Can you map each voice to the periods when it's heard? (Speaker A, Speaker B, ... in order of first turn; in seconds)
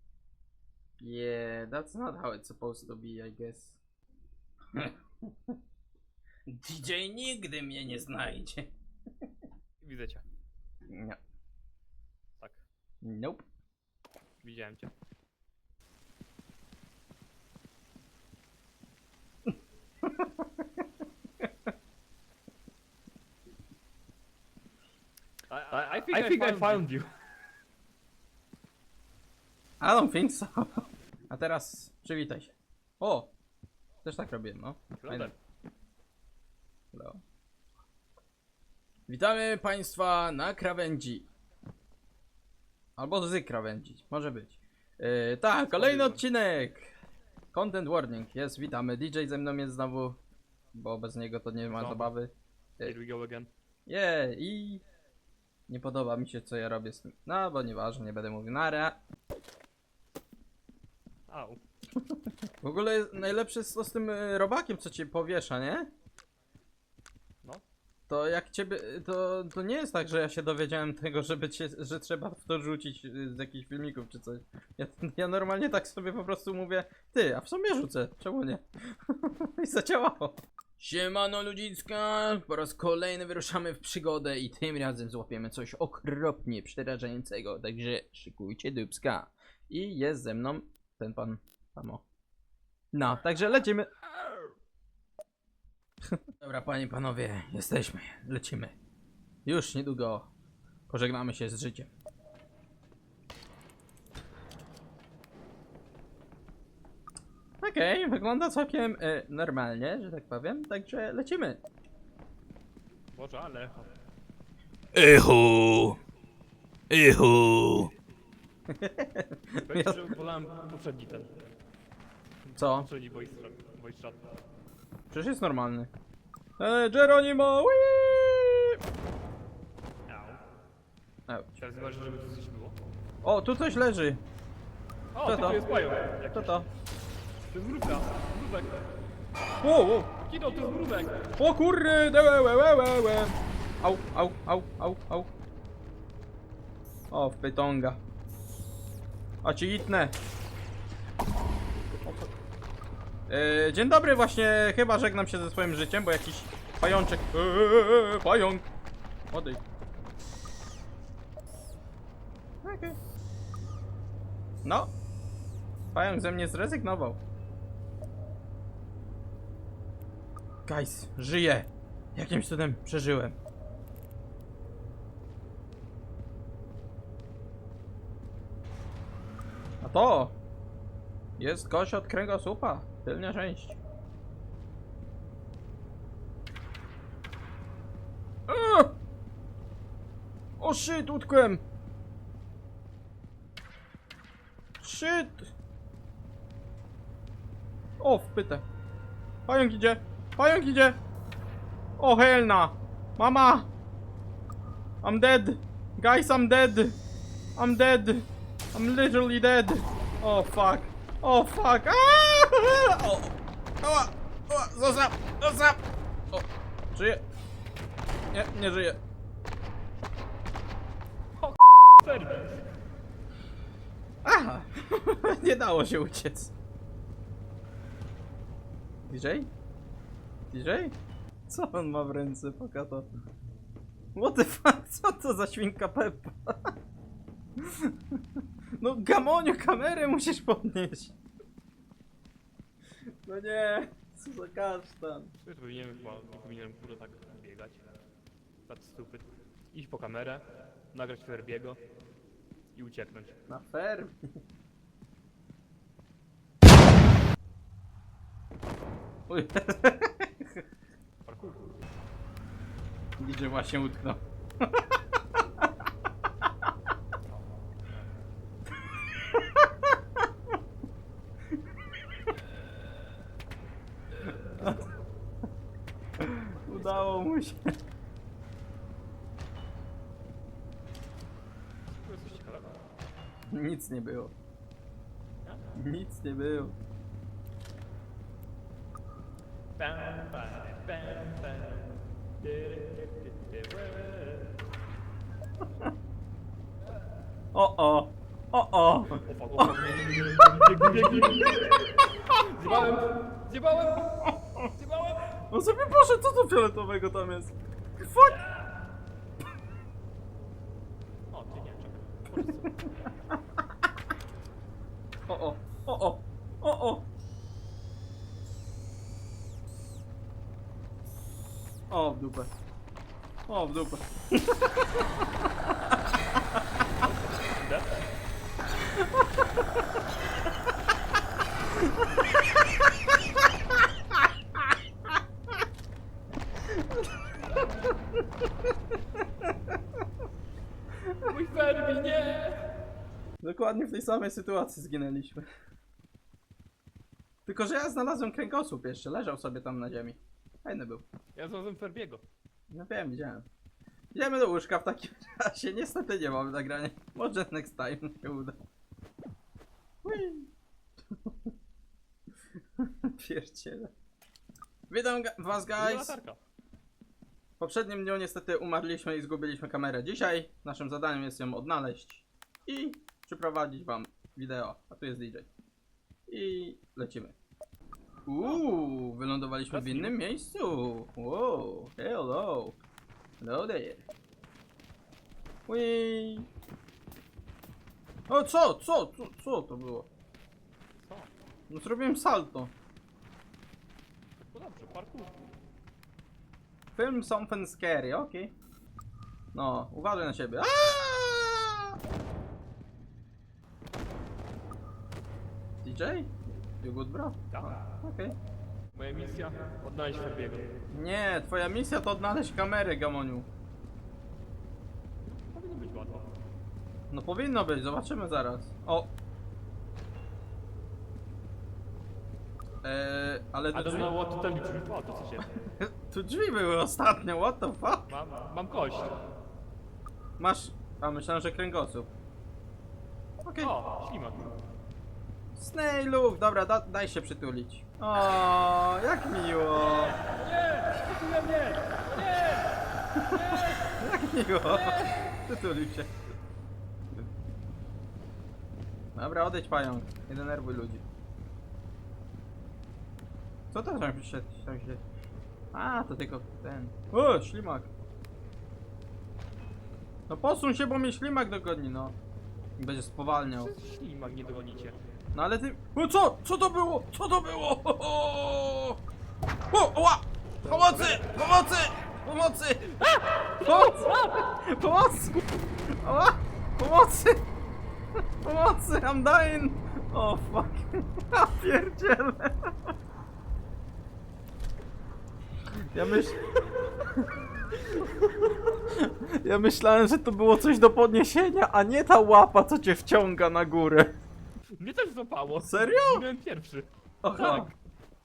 Speaker A: 1.0-3.8, 4.7-5.6, 6.5-8.7, 10.9-11.2, 13.0-13.4, 20.0-20.7, 26.1-26.6, 29.8-33.3, 34.0-35.3, 36.9-37.2, 39.1-41.2, 43.0-46.9, 47.5-50.2, 50.7-53.0, 53.9-54.8, 55.7-59.0, 62.6-65.9, 68.1-92.0, 92.9-93.9, 96.3-98.7, 99.4-100.3, 100.9-101.9, 107.6-111.6, 114.9-116.0, 116.9-117.9, 118.7-120.1, 122.6-122.9, 125.1-125.9, 126.6-128.8, 131.3-131.6, 133.2-134.2, 135.2-135.6, 136.3-136.7, 139.6-140.1, 141.4-145.3, 147.1-148.0, 149.4-150.1, 153.3-158.7, 159.3-159.6, 162.6-162.9, 164.6-164.9, 165.9-167.2, 170.7-173.3, 179.8-180.3, 181.4-183.8, 188.5-188.9, 190.6-191.6, 194.8-195.5, 198.0-198.6, 199.5-201.0, 202.0-203.7, 205.0-207.0, 207.6-215.8, 216.3-217.2, 218.3-219.0, 224.2-226.5, 229.0-229.5, 230.5-231.0, 231.5-233.1, 234.1-236.7, 237.6-237.9, 238.8-241.2, 243.2-245.3, 253.5-254.2, 259.3-260.6, 263.2-264.7, 269.2-269.9, 274.5-274.9, 276.2-277.7, 283.5-284.3, 285.8-286.8, 297.5-299.8, 300.4-300.9, 305.5-308.4, 315.3-317.0, 321.9-322.5, 323.5-325.1, 329.0-329.6, 336.7-337.1, 343.4-345.4, 347.4-351.0, 352.7-353.4, 354.1-358.6, 360.0-360.5, 361.1-361.5, 362.8-363.9, 364.9-366.2, 367.6-375.5, 376.3-377.3, 378.3-382.8, 383.4-384.0, 385.7-386.5, 388.3-390.1, 391.7-392.7, 396.9-398.5, 399.5-401.9, 405.8-408.4, 410.9-413.5, 417.1-419.1, 422.8-424.1, 425.8-428.1, 430.4-432.1, 433.4-433.7, 435.5-440.2, 443.1-446.1, 449.1-451.0, 453.7-455.0, 455.7-457.9, 460.3-462.1, 462.8-463.7, 465.3-469.0, 469.7-473.0, 473.6-475.4, 476.0-477.4, 478.4-482.7, 485.9-486.4, 487.1-494.1, 495.6-496.2, 497.2-497.7
Speaker B: 9.8-10.2, 14.4-14.9, 25.5-27.1, 35.0-35.3, 45.7-46.2, 51.7-52.1, 52.8-53.5, 61.3-61.6, 113.1-113.9, 119.7-121.3, 122.5-124.3, 130.1-130.4, 131.6-132.8, 135.1-136.6, 137.5-138.9, 140.2-141.3, 221.4-222.7, 245.4-247.9, 248.7-251.8, 252.7-253.4, 261.2-261.7, 267.3-268.1, 274.2-274.9, 276.7-277.3, 281.9-282.8, 289.8-294.5, 299.1-305.3, 308.3-308.6, 311.3-313.1, 327.0-328.0, 341.2-342.7, 351.3-352.2, 365.6-366.4, 378.4-378.6, 379.7-380.1, 391.0-391.3, 394.5-395.4, 407.5-407.8, 408.9-410.7, 415.2-416.3, 423.7-425.5, 428.1-429.2, 433.6-434.5, 439.7-443.9, 444.6-445.2, 463.5-465.0, 470.6-471.2, 472.9-474.4, 494.8-497.7